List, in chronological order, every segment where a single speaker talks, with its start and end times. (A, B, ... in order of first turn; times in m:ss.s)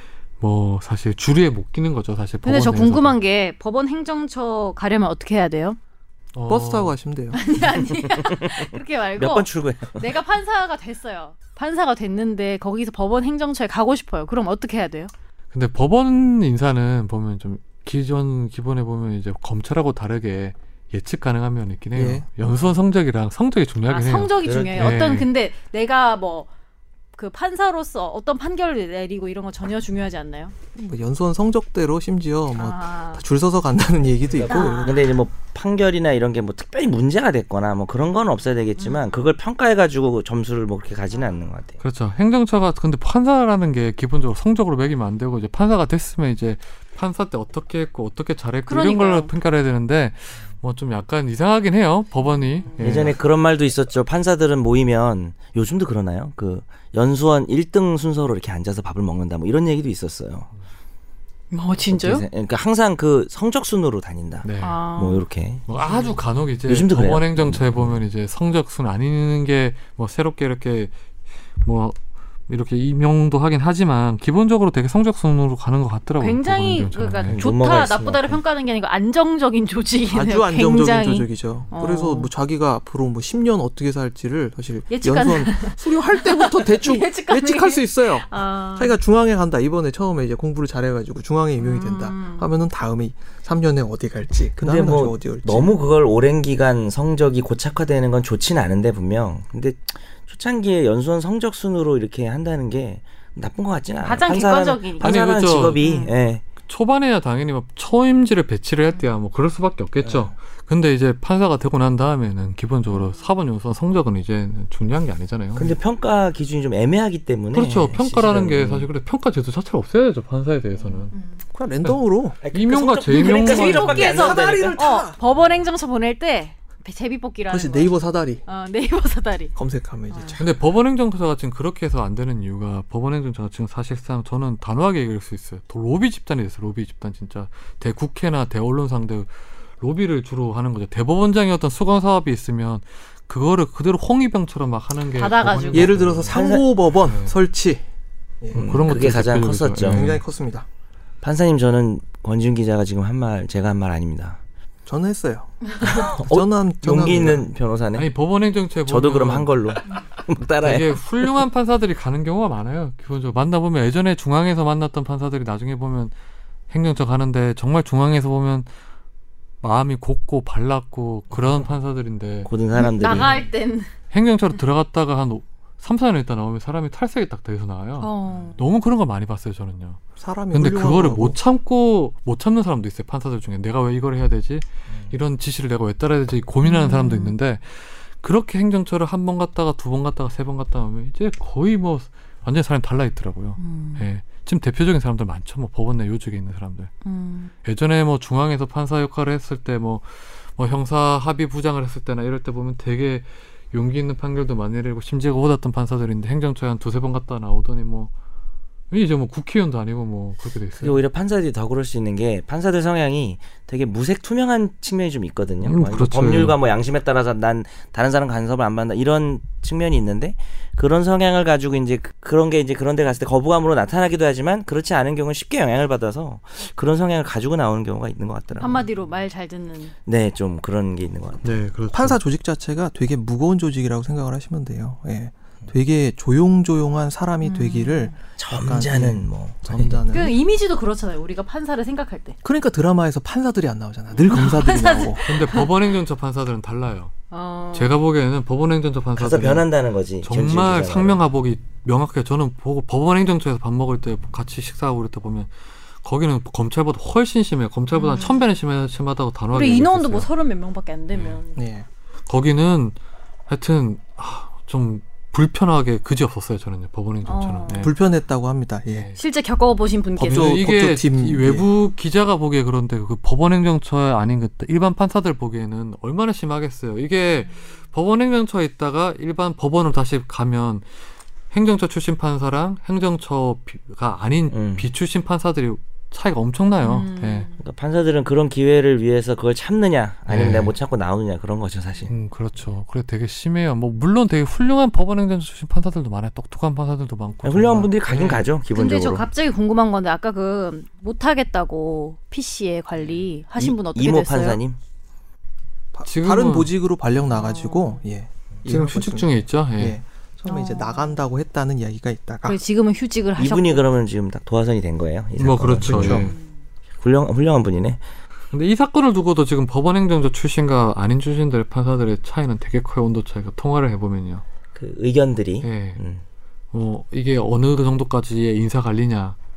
0:00.4-0:03.2 A
0:02.4-0:05.8 B
0:06.4-0:07.0 A
0:06.5-0:07.4 C
0:07.3-0:15.1 B
0:08.2-0:10.1 D
0:15.5-0:25.3 A
0:22.0-0:22.6 C
0:23.9-0:26.5 B
0:24.4-0:25.2 D
0:27.2-0:30.5 B
0:30.8-0:35.0 C
0:32.6-0:33.2 B
0:34.3-0:41.8 D
0:34.5-0:35.2 B
0:38.8-0:39.2 B
0:41.8-0:53.2 A
0:48.7-0:49.3 B
0:52.3-0:52.8 B
0:52.8-1:00.5 D
1:01.5-1:02.2 B
1:01.9-1:05.6 D
1:04.4-1:04.8 A
1:04.6-1:05.2 B
1:05.7-1:10.9 A
1:06.7-1:08.0 D
1:11.6-1:12.0 A
1:12.5-1:17.4 A
1:16.2-1:22.3 B
1:17.3-1:18.4 D
1:20.1-1:35.8 C
1:24.9-1:29.0 B
1:31.6-1:32.5 B
1:34.6-1:46.4 D
1:44.0-1:45.2 B
1:45.0-1:45.9 A
1:45.8-1:46.2 B
1:46.7-1:55.8 A
1:50.0-1:50.3 D
1:55.6-1:58.9 D
1:57.5-2:01.1 A
2:00.8-2:01.0 D
2:01.1-2:01.4 B
2:01.5-2:02.4 C
2:02.4-2:04.8 D
2:02.5-2:04.1 A
2:03.1-2:07.9 B
2:03.7-2:05.2 C
2:07.5-2:08.4 C
2:08.4-2:09.6 B
2:09.6-2:10.5 C
2:10.1-2:10.4 B
2:10.4-2:26.4 A
2:25.2-2:26.0 B
2:25.7-2:27.8 C
2:26.3-2:26.7 D
2:27.1-2:27.3 A
2:28.4-2:28.7 C
2:28.5-2:30.1 D
2:28.5-2:30.2 A
2:29.8-2:30.7 C
2:31.2-2:34.4 D
2:34.9-2:37.5 C
2:35.8-2:38.1 D
2:38.0-2:39.5 A
2:38.9-2:41.0 D
2:40.6-2:46.1 A
2:46.7-2:48.7 A
2:49.6-2:52.5 A
2:52.5-2:53.4 D
2:52.8-2:53.9 B
2:53.1-2:53.4 A
2:54.1-3:00.0 A
2:58.0-2:58.6 B
3:00.2-3:01.4 C
3:00.5-3:16.9 A
3:06.6-3:07.4 B
3:13.6-3:14.0 B
3:17.0-3:17.5 B
3:17.6-3:28.1 A
3:28.9-3:31.0 A
3:30.8-3:48.9 D
3:35.6-3:36.6 A
3:48.6-3:49.9 B
3:50.1-3:51.4 D
3:51.4-3:52.2 A
3:51.9-4:00.4 C
3:57.4-3:58.2 B
3:58.4-4:00.0 D
4:00.1-4:02.4 B
4:02.4-4:05.2 C
4:04.2-4:05.7 B
4:05.2-4:07.1 A
4:07.3-4:08.0 B
4:07.7-4:09.7 A
4:09.2-4:11.2 D
4:10.2-4:15.5 A
4:16.0-4:20.3 A
4:17.9-4:18.5 B
4:19.5-4:21.6 B
4:21.1-4:21.4 A
4:21.6-4:21.9 C
4:22.3-4:23.0 A
4:23.5-4:27.9 A
4:27.3-4:27.9 B
4:27.8-4:29.1 C
4:28.9-4:29.2 A
4:29.2-4:30.6 B
4:30.2-4:31.7 C
4:30.2-4:40.9 A
4:41.5-4:47.5 A
4:44.5-4:44.9 D
4:46.8-4:47.6 B
4:47.6-4:52.1 D
4:50.3-4:50.8 A
4:52.1-4:58.5 A
4:57.4-4:59.3 D
4:58.7-5:04.6 B
5:03.6-5:04.8 D
5:05.9-5:12.6 C
5:06.0-5:06.7 A
5:07.3-5:08.0 B
5:08.7-5:10.0 A
5:10.5-5:11.2 B
5:12.4-5:13.8 B
5:13.4-5:16.3 D
5:15.4-5:16.4 A
5:15.8-5:16.3 C
5:17.0-5:18.0 D
5:18.5-5:24.4 A
5:24.8-5:26.2 D
5:25.6-5:26.0 A
5:26.7-5:29.4 A